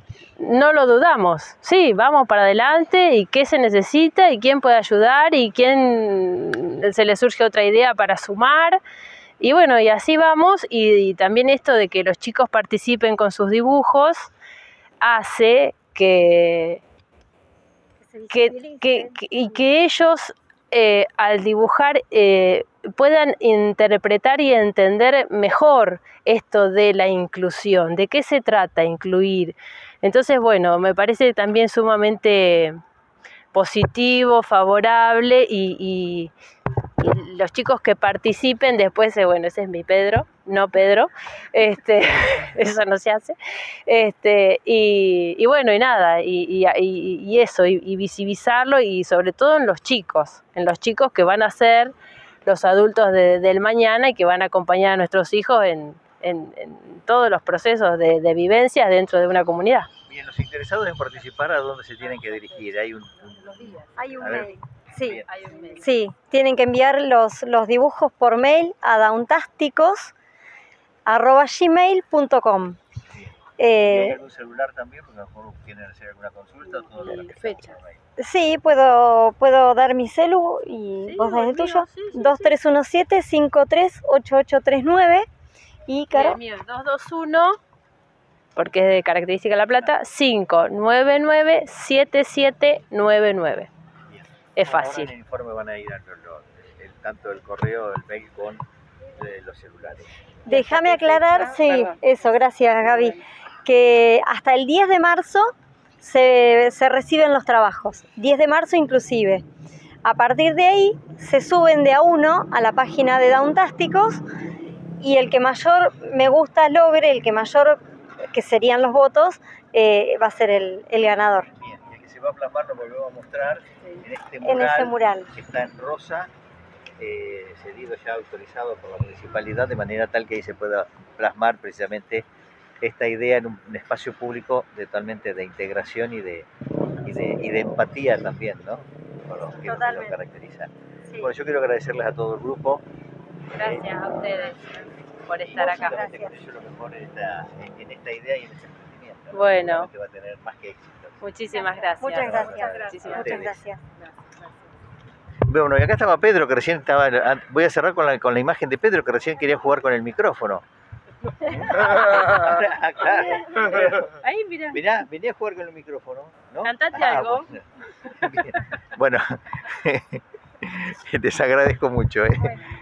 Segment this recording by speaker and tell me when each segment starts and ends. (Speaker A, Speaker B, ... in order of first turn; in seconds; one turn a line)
Speaker A: 0.4-8.8
Speaker A: 9.4-14.3
Speaker A: 15.0-16.8
Speaker B: 18.0-19.6
Speaker A: 18.3-32.8
Speaker A: 33.5-36.3
Speaker A: 37.0-51.9
Speaker A: 52.4-59.9
Speaker C: 60.1-65.3
Speaker B: 64.0-65.2
Speaker A: 65.2-65.9
Speaker B: 65.7-70.1
Speaker B: 71.1-72.8
Speaker C: 73.1-78.0
Speaker B: 73.6-74.2
Speaker A: 76.9-77.7
Speaker B: 78.2-85.3
Speaker A: 81.0-82.5
Speaker B: 85.9-86.4
Speaker A: 86.1-87.6
Speaker A: 88.5-93.7
Speaker C: 94.1-98.6
Speaker A: 94.6-95.1
Speaker C: 99.1-100.1
Speaker B: 100.5-109.4
Speaker A: 100.5-103.2
Speaker B: 110.0-114.2
Speaker B: 115.0-117.8
Speaker B: 118.3-121.5
Speaker C: 121.6-126.3
Speaker B: 124.4-125.3
Speaker C: 127.0-132.2
Speaker C: 132.8-136.5
Speaker C: 137.0-140.7
Speaker B: 139.5-140.2
Speaker C: 141.2-142.8
Speaker A: 143.5-146.0
Speaker C: 143.6-143.9
Speaker C: 145.4-151.2
Speaker B: 145.6-146.4
Speaker A: 149.3-149.9
Speaker A: 151.2-154.4
Speaker B: 152.0-153.8
Speaker C: 152.1-153.6
Speaker C: 155.5-160.6
Speaker C: 161.4-164.1
Speaker A: 164.0-164.8
Speaker C: 164.7-172.6
Speaker A: 166.6-167.5